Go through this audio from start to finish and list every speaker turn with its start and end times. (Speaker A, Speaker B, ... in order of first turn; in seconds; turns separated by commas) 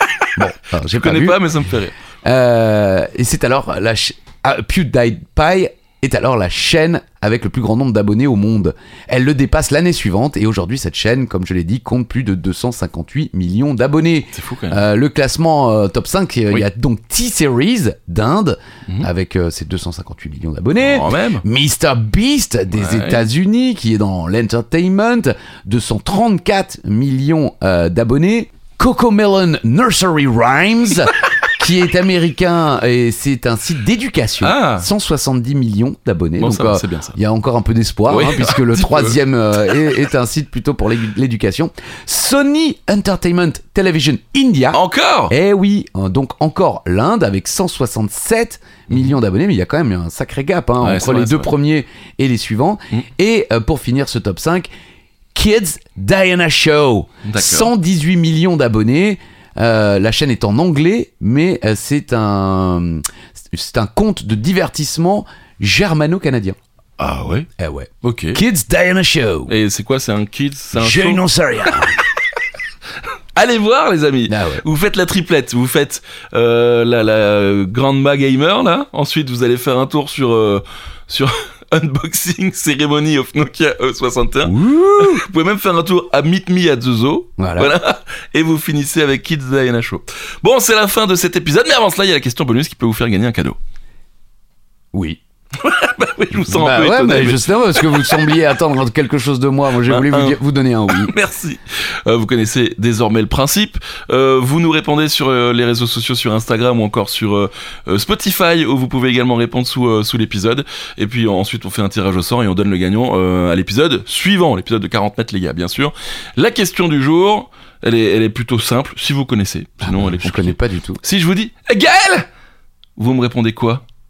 Speaker A: 0.3-1.4, Speaker B: 0.9-1.9, Speaker A: 2.2-54.7, Speaker B: 14.3-14.8, Speaker B: 20.8-21.4, Speaker B: 22.7-23.2, Speaker B: 34.4-34.9, Speaker B: 36.4-37.2, Speaker B: 38.1-39.2, Speaker B: 44.7-45.3, Speaker B: 48.9-49.1, Speaker B: 50.8-51.5, Speaker A: 55.3-66.6, Speaker B: 57.2-57.7, Speaker B: 67.0-67.5, Speaker A: 67.6-69.5, Speaker B: 68.0-68.4, Speaker B: 69.5-71.2, Speaker A: 70.7-72.0, Speaker B: 73.3-93.6, Speaker A: 74.3-74.6, Speaker A: 84.4-85.2, Speaker A: 87.4-87.7, Speaker A: 94.9-95.2, Speaker B: 95.6-98.1, Speaker A: 96.4-101.1, Speaker B: 99.8-100.4, Speaker B: 100.9-122.3, Speaker A: 119.8-121.0, Speaker B: 123.0-123.8